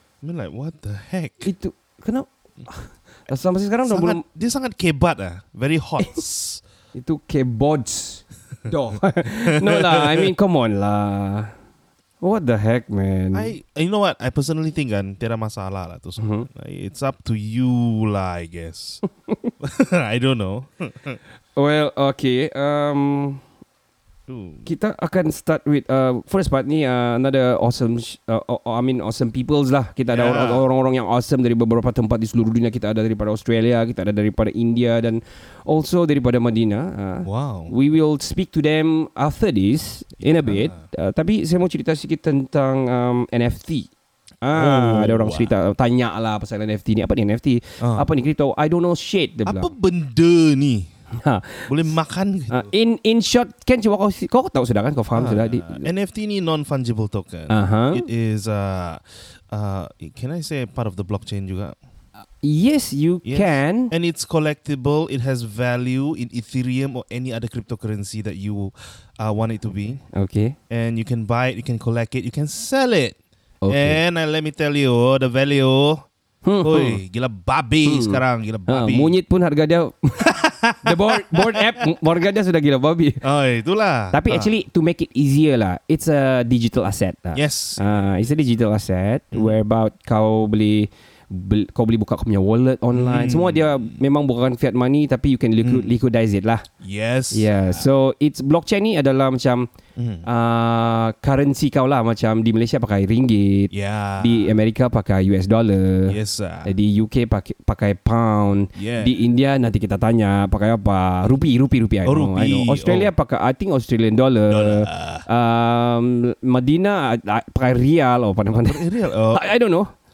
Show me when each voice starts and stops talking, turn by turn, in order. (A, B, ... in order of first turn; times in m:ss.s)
0:00.2-0:01.5 A
0:01.4-0:04.2 B
0:03.8-0:06.6 A
0:06.9-0:11.5 B
0:09.4-0:10.3 A
0:12.2-0:13.5 B
0:13.3-0:19.0 A
0:16.2-0:16.5 B
0:19.6-0:21.2 A
0:21.6-0:23.4 B
0:24.3-0:24.7 A
0:24.6-0:43.9 B
0:30.1-0:30.6 A
0:37.2-0:37.7 A
0:40.2-0:40.8 A
0:44.4-0:49.7 B
0:44.5-0:45.5 A
0:49.4-0:50.9 A
0:51.2-0:51.7 B
0:51.7-0:52.7 A
0:52.5-0:55.9 B
0:55.1-1:01.8 A
0:57.5-0:58.0 B
1:02.4-1:03.9 B
1:03.2-1:10.0 A
1:10.1-1:10.6 B
1:10.7-1:13.2 A
1:13.6-1:14.0 B
1:13.7-1:16.1 A
1:16.4-1:17.0 B
1:16.6-1:19.2 A
1:17.8-1:23.2 B
1:20.2-1:21.7 A
1:23.2-1:24.5 A
1:24.1-1:36.6 B
1:27.3-1:28.1 A
1:29.3-1:29.6 A
1:32.9-1:34.0 A
1:35.6-1:35.9 A
1:36.8-1:37.9 A
1:37.3-1:39.7 B
1:40.0-1:40.3 A
1:40.2-1:59.9 B
1:43.7-1:44.5 A
1:46.1-1:46.7 A
1:48.7-1:49.1 A
1:52.0-1:53.1 A
1:54.5-1:55.2 A
1:58.5-1:59.5 A